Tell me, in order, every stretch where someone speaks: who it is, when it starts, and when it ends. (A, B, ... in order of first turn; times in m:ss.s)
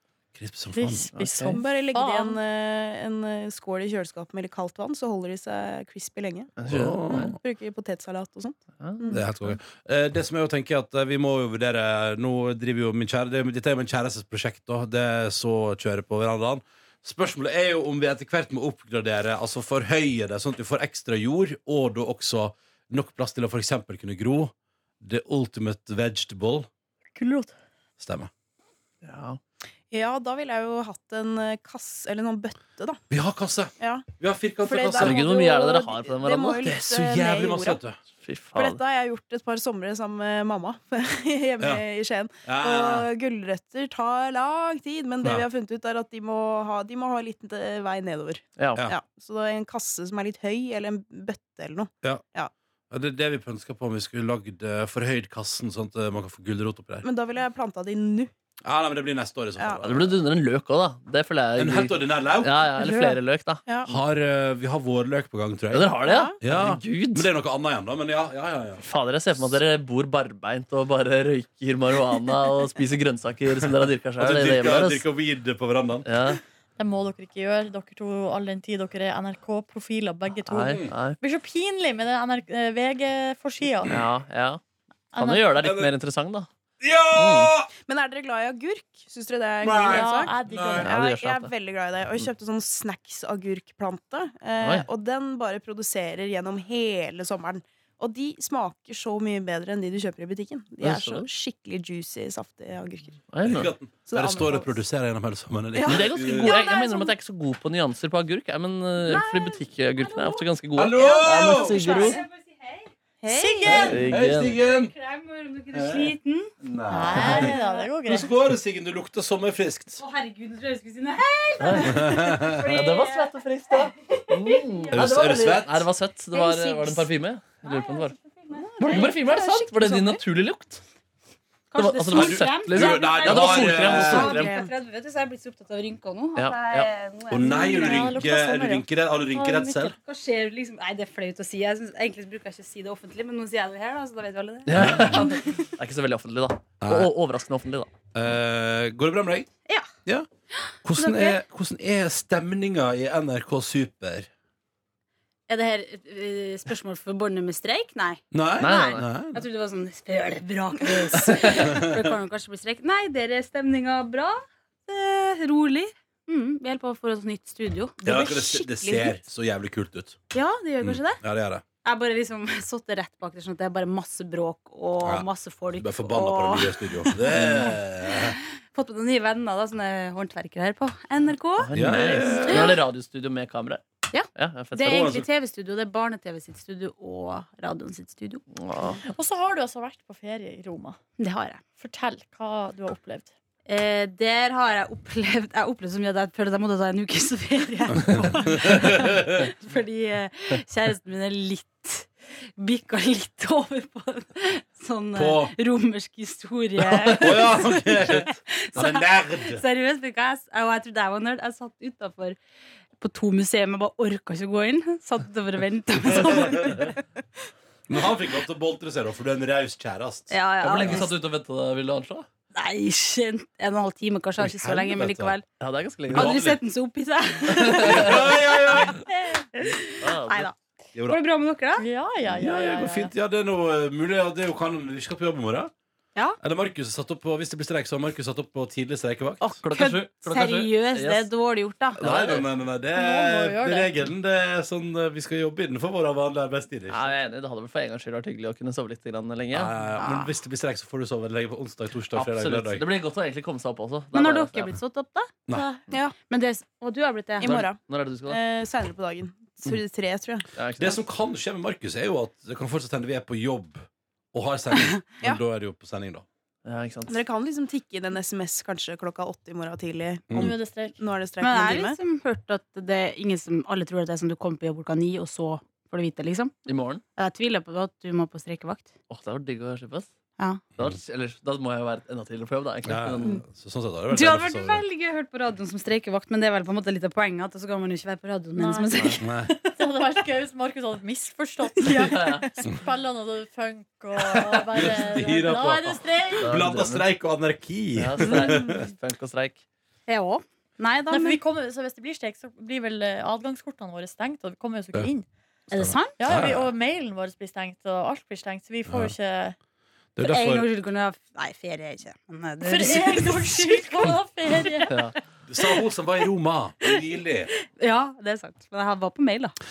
0:00.3-0:01.1 A
0:00.7-0:02.4 B
0:01.2-0:01.6 C
0:01.5-0:06.6 D
0:06.6-0:07.4 C
0:06.7-0:07.4 A
0:07.1-0:09.3 D
0:08.8-0:09.5 C
0:09.1-0:26.7 A
0:27.2-0:27.5 B
0:28.0-0:28.3 A
0:29.0-0:29.4 C
0:29.9-0:33.0 D
0:33.1-0:35.2 A
0:33.8-0:34.1 D
0:34.6-0:37.8 D
0:35.0-0:36.7 C
0:36.6-0:38.0 A
0:38.2-0:38.8 C
0:38.6-0:52.5 D
0:42.4-0:43.1 A
0:48.6-0:48.8 C
0:52.9-0:57.1 A
0:57.0-0:58.3 D
0:58.6-1:00.1 A
0:59.6-0:59.8 D
0:59.8-1:03.6 C
1:01.6-1:02.6 A
1:02.8-1:04.0 D
1:03.9-1:08.8 A
1:05.7-1:07.3 C
1:06.0-1:06.4 D
1:08.8-1:15.0 C
1:14.2-1:16.1 A
1:16.1-1:16.4 C
1:16.8-1:23.9 B
1:20.5-1:21.2 C
1:20.7-1:20.9 A
1:23.9-1:24.6 C
1:25.1-1:25.6 B
1:25.2-1:26.5 C
1:25.6-1:25.9 A
1:26.8-1:27.7 A
1:27.1-1:27.5 C
1:27.9-1:43.2 D
1:29.6-1:30.9 A
1:29.9-1:30.9 B
1:30.8-1:31.5 C
1:34.6-1:34.9 C
1:40.8-1:41.3 C
1:43.3-1:43.7 C
1:43.4-1:46.6 A
1:44.1-1:44.8 D
1:45.8-1:46.6 D
1:45.8-1:52.2 C
1:46.4-1:47.0 E
1:49.1-1:50.4 E
1:50.8-1:51.8 A
1:51.0-1:52.2 D
1:51.5-1:52.9 E
1:53.2-1:54.0 D
1:53.3-1:54.0 B
1:53.6-1:54.9 A
1:53.9-1:54.6 C
1:54.6-1:56.5 E
1:55.7-1:57.6 A
1:56.9-1:58.3 B
1:57.3-1:57.8 E
1:58.1-2:00.0 A
2:00.0-2:05.1 E
2:01.6-2:08.2 C
2:01.8-2:02.8 A
2:04.9-2:05.9 A
2:06.4-2:07.0 E
2:07.6-2:09.2 E
2:08.8-2:10.2 D
2:08.8-2:10.8 C
2:11.7-2:18.2 E
2:11.8-2:14.5 C
2:12.1-2:14.4 A
2:13.9-2:14.7 D
2:16.4-2:16.9 C
2:17.3-2:20.0 A
2:17.4-2:19.9 B
2:20.0-2:25.5 E
2:24.7-2:27.9 C
2:24.8-2:25.3 A
2:26.8-2:27.1 A
2:28.1-2:29.5 A
2:30.8-2:34.3 A
2:31.0-2:31.4 E
2:35.5-2:48.0 E
2:38.3-2:39.4 A
2:38.6-2:39.1 C
2:41.2-2:41.7 C
2:41.6-2:42.1 A
2:48.0-2:49.2 D
2:48.0-2:50.2 A
2:50.3-2:51.2 E
2:50.8-2:51.6 A
2:51.8-3:02.8 E
2:55.0-2:58.4 A
3:01.6-3:03.8 C
3:01.7-3:02.8 A
3:04.1-3:08.4 E
3:04.4-3:05.2 C
3:04.8-3:05.2 A
3:08.6-3:09.0 C
3:09.0-3:11.0 B
3:11.2-3:11.6 E
3:11.8-3:13.3 B
3:13.7-3:32.4 E
3:18.1-3:19.4 A
3:25.2-3:25.5 A
3:26.9-3:27.3 C
3:27.2-3:29.6 A
3:33.0-3:37.0 E
3:36.1-3:36.9 A
3:37.9-3:41.1 A
3:40.3-3:41.1 E
3:40.6-3:42.3 C
3:42.6-3:45.4 E
3:44.4-3:45.4 A
3:45.6-3:46.5 C
3:46.1-3:46.6 A
3:46.1-3:50.5 E
3:47.5-3:48.3 C
3:47.6-3:49.0 A
3:50.0-3:50.5 C
3:51.0-3:51.2 A
3:51.0-3:51.9 E
3:51.8-3:53.1 B
3:52.3-3:55.7 A
3:56.4-3:59.6 A
3:59.4-4:02.0 E
3:59.6-4:01.3 C
4:02.0-4:02.5 C
4:02.0-4:07.0 A
4:02.9-4:04.0 B
4:06.9-4:09.8 C
4:09.5-4:12.9 A
4:12.1-4:14.8 C
4:14.1-4:17.6 E
4:15.9-4:16.2 D
4:17.4-4:20.5 D
4:17.4-4:18.4 C
4:20.6-4:21.0 C
4:20.8-4:26.3 A
4:26.6-4:27.2 C
4:27.1-4:32.0 D
4:30.3-4:31.0 B
4:31.4-4:36.5 E
4:36.7-4:37.0 C
4:37.2-4:38.9 E
4:39.1-4:40.1 C
4:40.8-4:43.4 C
4:42.8-4:44.8 A
4:44.1-4:49.3 E
4:48.6-4:56.5 B
4:49.2-4:49.5 A
4:51.8-4:52.2 E
4:51.9-4:52.5 C
4:54.7-4:58.8 A
4:56.4-4:57.0 C
4:58.0-4:59.6 C
4:58.4-4:58.7 E
5:00.1-5:01.4 E
5:01.1-5:05.3 B
5:05.7-5:06.2 E
5:05.7-5:06.7 A
5:06.2-5:09.6 B
5:08.9-5:09.1 A
5:10.2-5:10.7 A
5:10.2-5:14.1 E
5:12.6-5:14.9 B
5:15.5-5:17.5 A
5:17.7-5:19.6 E